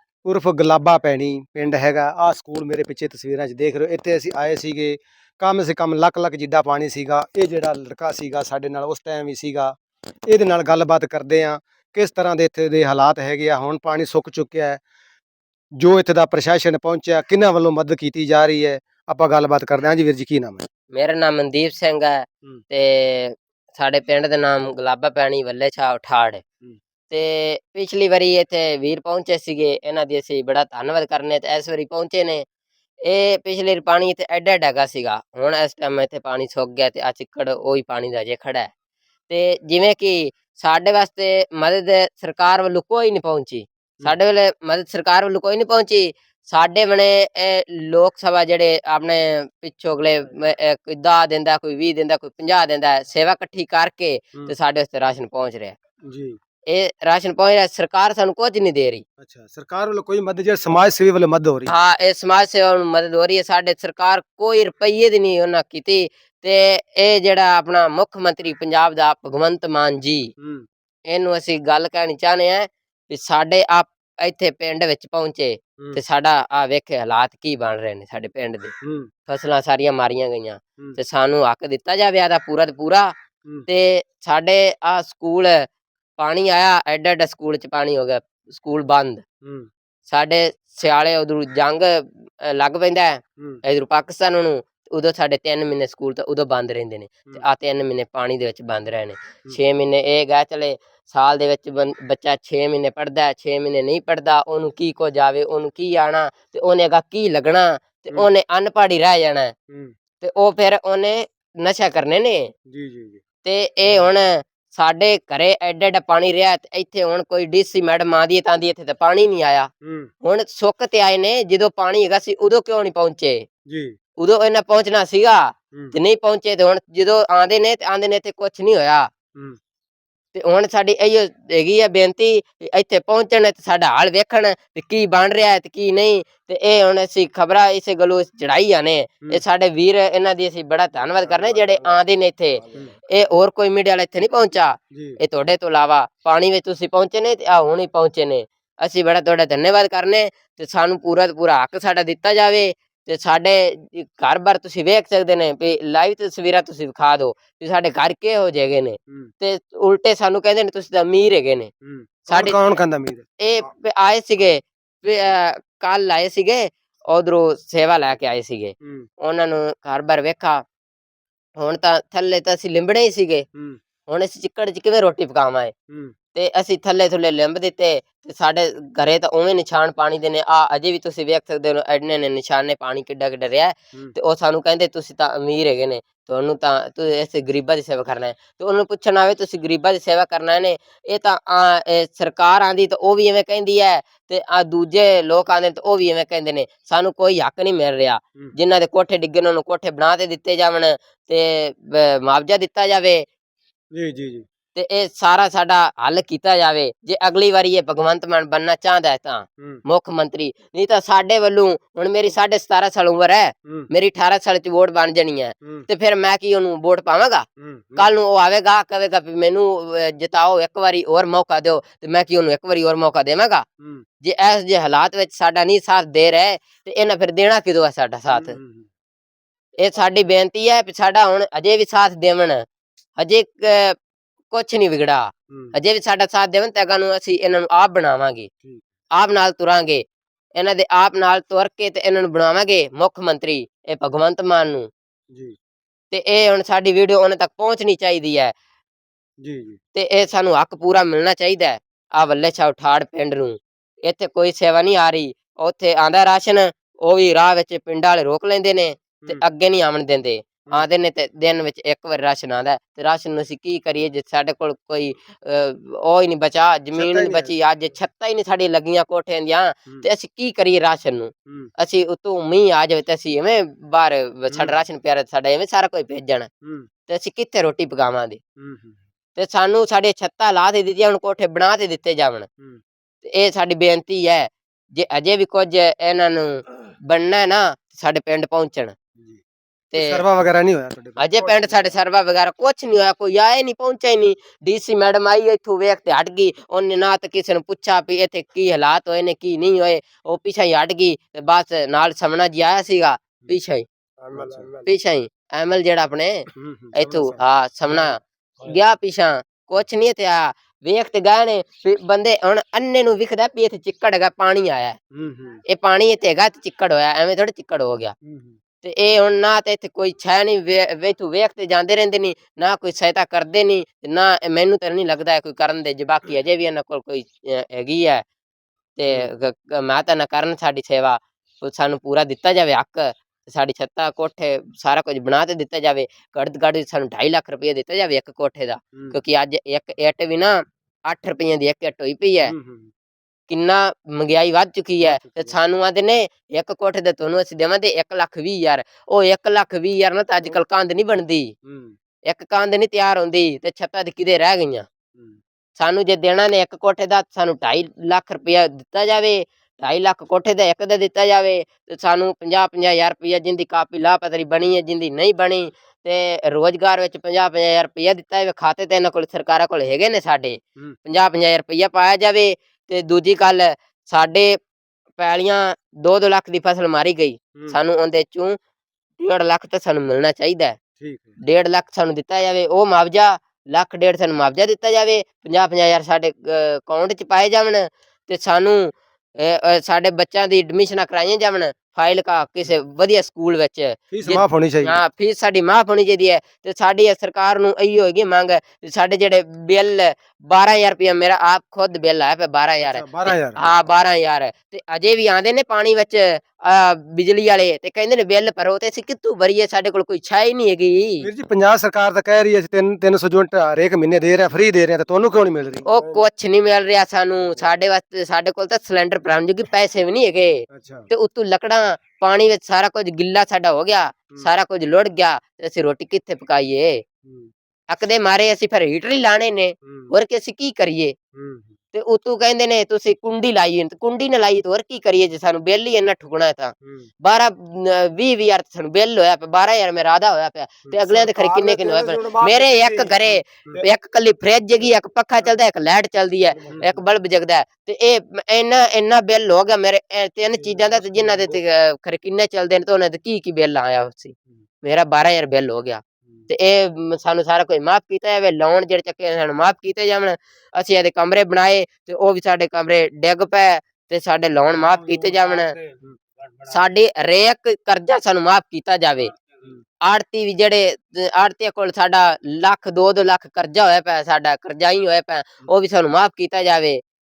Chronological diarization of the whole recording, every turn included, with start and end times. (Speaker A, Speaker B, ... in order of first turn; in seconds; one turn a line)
Speaker A: 0.2-14.8
Speaker A: 15.8-20.6
Speaker B: 20.9-26.4
Speaker B: 27.1-32.4
Speaker B: 33.0-38.7
Speaker B: 39.3-55.7
Speaker A: 56.1-56.4
Speaker B: 56.7-59.0
Speaker A: 59.2-61.7
Speaker B: 61.7-70.3
Speaker A: 70.4-70.7
Speaker B: 71.1-78.7
Speaker A: 78.8-79.1
Speaker B: 79.3-83.1
Speaker B: 83.7-85.7
Speaker B: 86.2-89.2
Speaker A: 89.4-89.7
Speaker B: 90.1-109.5
Speaker B: 110.2-112.5
Speaker A: 112.7-113.2
Speaker B: 113.4-119.7
Speaker A: 119.8-120.1
Speaker B: 120.2-123.4
Speaker A: 123.7-123.9
Speaker B: 124.2-129.1
Speaker B: 130.3-161.7
Speaker A: 141.2-142.0
Speaker A: 144.9-145.2
Speaker A: 161.8-163.2
Speaker B: 162.3-162.6
Speaker B: 163.4-170.6
Speaker B: 171.6-173.4
Speaker B: 174.1-175.7
Speaker A: 175.9-176.1
Speaker B: 176.3-203.2
Speaker A: 203.9-204.4
Speaker B: 204.7-217.4
Speaker A: 217.6-218.1
Speaker B: 218.0-223.6
Speaker B: 224.2-228.6
Speaker A: 228.3-228.9
Speaker B: 229.8-232.6
Speaker B: 233.2-233.9
Speaker B: 234.5-238.5
Speaker A: 235.5-235.8
Speaker B: 239.1-240.0
Speaker B: 240.6-244.9
Speaker B: 246.1-248.5
Speaker A: 249.4-249.8
Speaker B: 249.9-276.5
Speaker A: 266.9-267.5
Speaker A: 274.5-274.8
Speaker A: 276.6-276.9
Speaker B: 277.1-278.4
Speaker A: 278.6-279.0
Speaker B: 279.4-282.5
Speaker B: 283.2-288.9
Speaker B: 289.9-290.2
Speaker A: 289.9-291.9
Speaker B: 291.2-303.9
Speaker A: 304.3-304.9
Speaker B: 304.8-315.0
Speaker A: 306.6-308.8
Speaker A: 315.1-315.6
Speaker B: 315.7-318.1
Speaker A: 318.2-318.6
Speaker B: 318.8-328.2
Speaker B: 329.0-342.5
Speaker A: 329.0-329.3
Speaker A: 338.9-339.2
Speaker A: 342.4-342.9
Speaker B: 343.5-351.5
Speaker A: 345.0-345.6
Speaker A: 351.6-351.9
Speaker B: 352.3-354.9
Speaker B: 355.8-374.6
Speaker B: 375.2-378.6
Speaker A: 377.6-377.8
Speaker B: 379.2-380.8
Speaker A: 381.0-381.4
Speaker B: 381.4-411.3
Speaker A: 394.1-395.0
Speaker A: 402.8-403.6
Speaker A: 411.2-416.2
Speaker B: 415.9-427.0
Speaker A: 420.7-421.1
Speaker A: 427.2-427.5
Speaker B: 427.9-431.1
Speaker A: 429.9-430.1
Speaker A: 431.3-431.7
Speaker B: 431.9-465.7
Speaker A: 440.8-443.8
Speaker A: 446.6-447.0
Speaker A: 450.4-451.6
Speaker A: 464.7-466.8
Speaker B: 466.7-469.3
Speaker B: 470.0-477.0